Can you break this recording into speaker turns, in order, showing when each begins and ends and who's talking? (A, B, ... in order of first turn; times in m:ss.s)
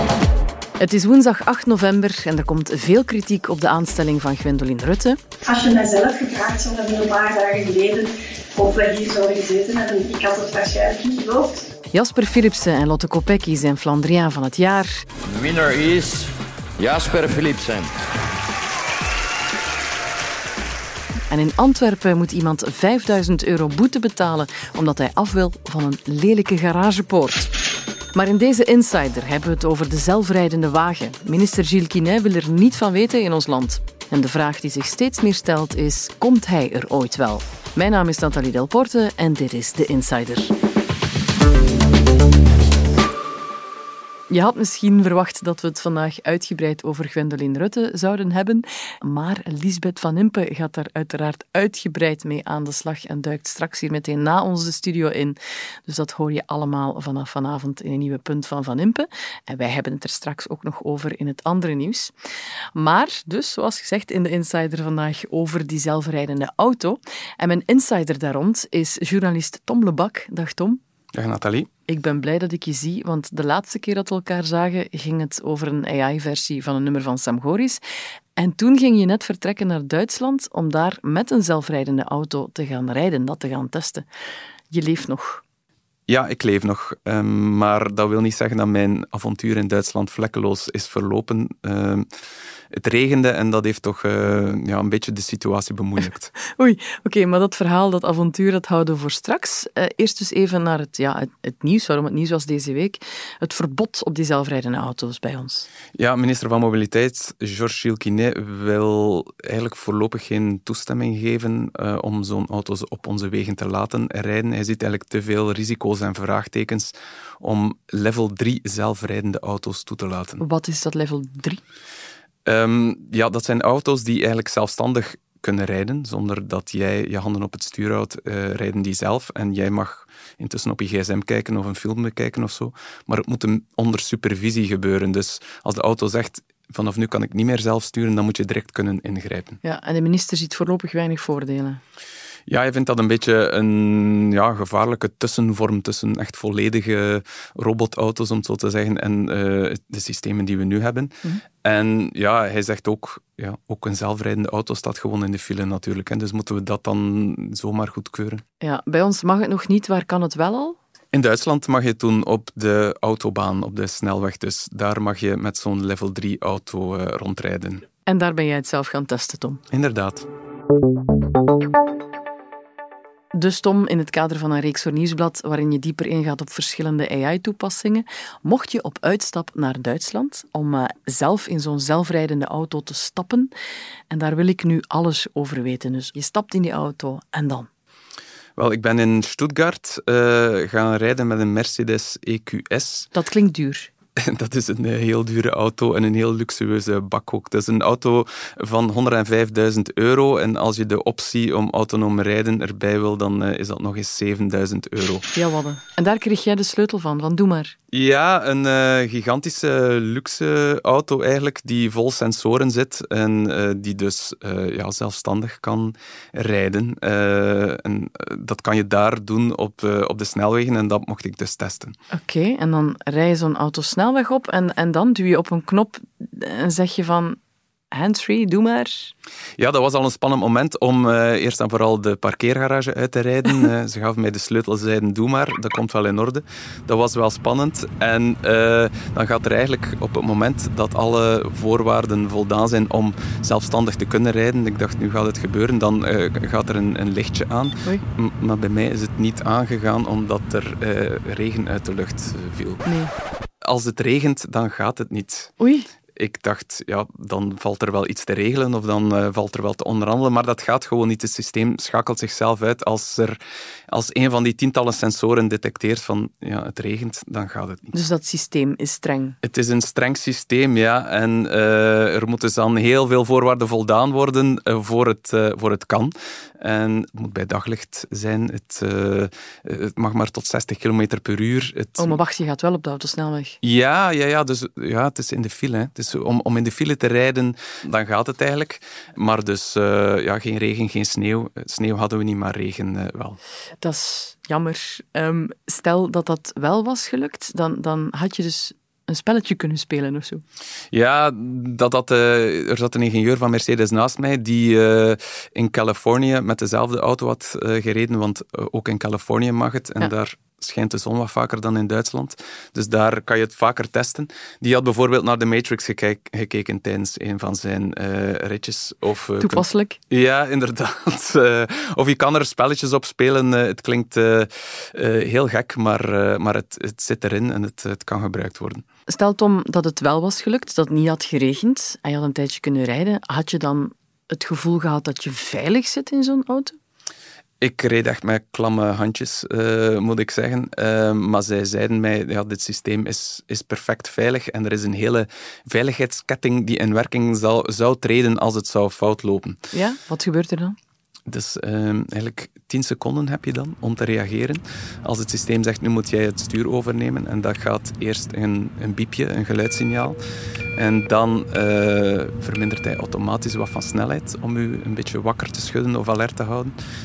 0:00.8-0:05.2 A
0:05.5-0:08.1 B
0:08.6-0:11.6 B
0:11.9-0:15.0 A
0:15.3-0:17.9 C
0:21.3-0:27.5 A
0:28.1-0:40.5 A
0:44.3-1:02.1 A
1:02.7-1:10.8 A
1:11.1-1:11.7 D
1:11.9-1:17.8 A
1:18.4-1:24.0 A
1:24.7-1:25.4 A
1:26.1-1:32.1 D
1:32.7-1:36.3 D
1:36.6-1:45.7 A
1:46.0-2:00.4 D
2:00.4-2:01.6 A
2:02.4-2:19.6 D
2:19.6-2:21.8 A
2:22.5-2:38.4 D
2:38.6-2:40.8 A
2:41.1-2:47.8 D
2:48.0-2:49.6 A
2:49.7-2:50.3 D
2:53.3-3:03.5 A
3:04.1-3:07.7 A
3:08.6-3:13.1 D
3:13.1-3:13.9 A
3:14.3-3:25.3 D
3:25.3-3:27.7 A
3:27.9-3:41.9 D
3:42.1-3:47.4 A
3:47.9-3:49.1 A
3:49.6-4:12.8 D
4:12.8-4:13.1 A
4:13.6-4:15.5 D
4:15.6-4:15.9 A
4:16.2-4:23.4 D
4:23.9-4:27.9 D
4:27.9-4:29.4 A
4:29.4-4:42.2 D
4:42.0-4:43.6 A
4:43.6-4:53.4 D
4:53.8-5:00.4 A
5:00.9-5:28.8 D
5:19.4-5:20.0 A
5:29.1-5:36.8 A
5:37.6-5:49.6 D
5:49.7-5:50.8 A
5:51.3-6:00.2 D
6:00.8-6:06.7 D